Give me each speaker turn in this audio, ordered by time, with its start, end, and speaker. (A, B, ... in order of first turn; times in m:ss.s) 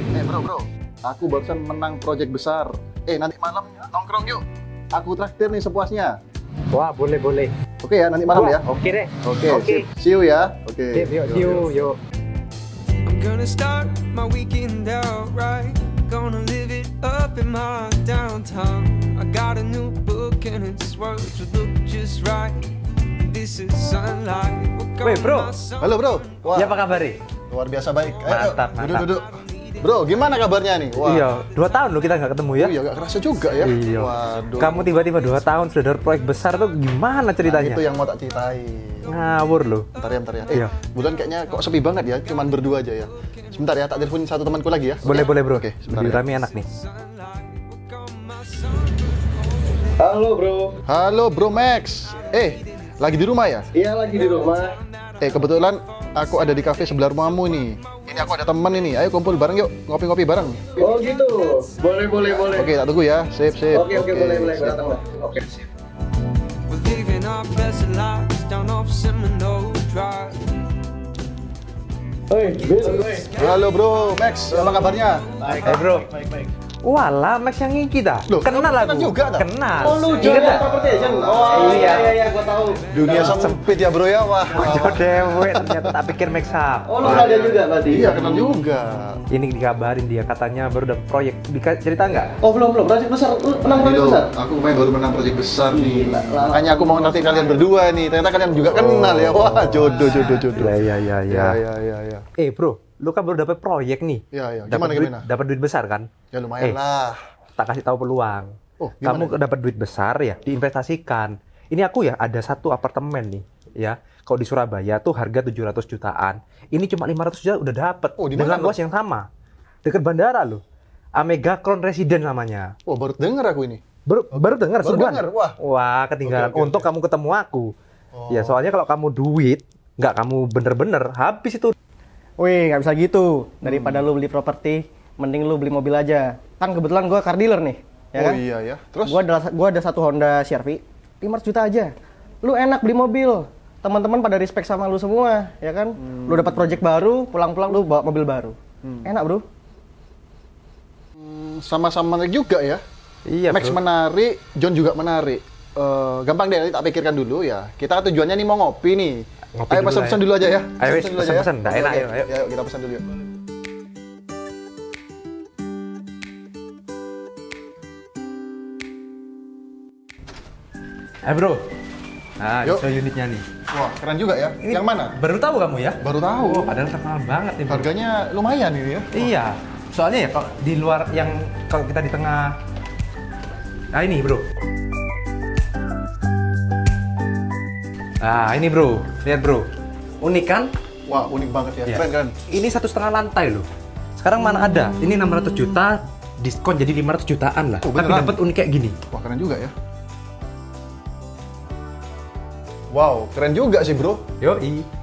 0:00.1-0:06.1 A
0:06.7-0:07.5 B
0:07.8-0:08.6 A
0:08.3-0:09.9 B
0:09.2-0:11.7 A
0:10.9-0:12.0 B
0:13.0-0:25.9 C
0:25.0-0:25.5 B
0:25.8-0:26.9 A
0:26.5-0:27.2 B
0:27.5-0:31.3 A
0:28.1-0:29.1 B
0:31.0-0:32.8 B
0:32.6-0:34.8 A
0:33.6-0:37.8 B
0:37.4-0:39.1 A
0:39.0-0:39.8 B
0:40.0-0:46.2 A
0:45.0-0:46.6 B
0:46.6-0:49.8 C
0:50.1-0:50.7 D
0:50.8-0:53.7 A
0:53.8-0:54.4 E
0:53.8-0:54.6 D
0:54.1-0:54.5 C
0:55.2-1:00.8 A
1:00.8-1:02.6 E
1:00.8-1:02.6 D
1:02.5-1:05.0 A
1:03.7-1:05.3 E
1:03.8-1:05.4 D
1:06.7-1:10.4 C
1:12.4-1:13.0 D
1:12.7-1:13.3 E
1:13.1-1:13.6 C
1:13.3-1:15.3 A
1:14.6-1:15.6 C
1:15.5-1:15.8 E
1:15.6-1:16.1 B
1:16.8-1:20.7 B
1:18.3-1:19.5 A
1:19.8-1:23.4 E
1:21.2-1:22.0 A
1:21.5-1:22.2 B
1:22.9-1:26.0 A
1:23.1-1:23.6 B
1:24.4-1:27.3 B
1:26.9-1:28.6 E
1:27.0-1:29.3 A
1:29.3-1:32.3 B
1:32.4-1:34.3 E
1:33.7-1:42.2 A
1:35.7-1:37.6 E
1:38.8-1:41.6 B
1:42.4-1:46.1 B
1:44.3-1:45.3 A
1:46.3-1:47.2 A
1:47.6-1:48.5 B
1:48.8-1:49.4 A
1:49.0-1:59.3 B
1:58.2-1:58.8 A
1:59.8-2:00.6 B
2:01.2-2:02.7 B
2:02.9-2:05.6 A
2:04.1-2:07.7 B
2:06.2-2:06.9 A
2:08.1-2:08.6 A
2:08.3-2:11.8 B
2:12.4-2:18.4 E
2:13.6-2:14.0 A
2:18.2-2:19.2 A
2:19.1-2:21.9 E
2:22.4-2:29.4 E
2:26.0-2:26.8 A
2:28.8-2:29.1 A
2:31.2-2:32.8 A
2:33.3-2:33.8 B
2:33.5-2:39.2 A
2:39.6-2:40.2 B
2:39.7-2:43.0 A
2:40.8-2:42.3 B
2:51.2-2:51.6 B
2:52.4-2:53.4 B
2:53.7-2:55.2 A
2:54.6-2:57.9 B
2:56.0-2:56.8 A
2:57.7-2:59.3 A
2:59.1-3:02.6 B
3:03.9-3:04.4 B
3:08.2-3:09.7 B
3:10.2-3:10.7 B
3:11.1-3:12.4 A
3:11.9-3:19.0 B
3:17.8-3:18.4 A
3:19.1-3:19.7 A
3:22.9-3:24.2 A
3:24.4-3:24.9 B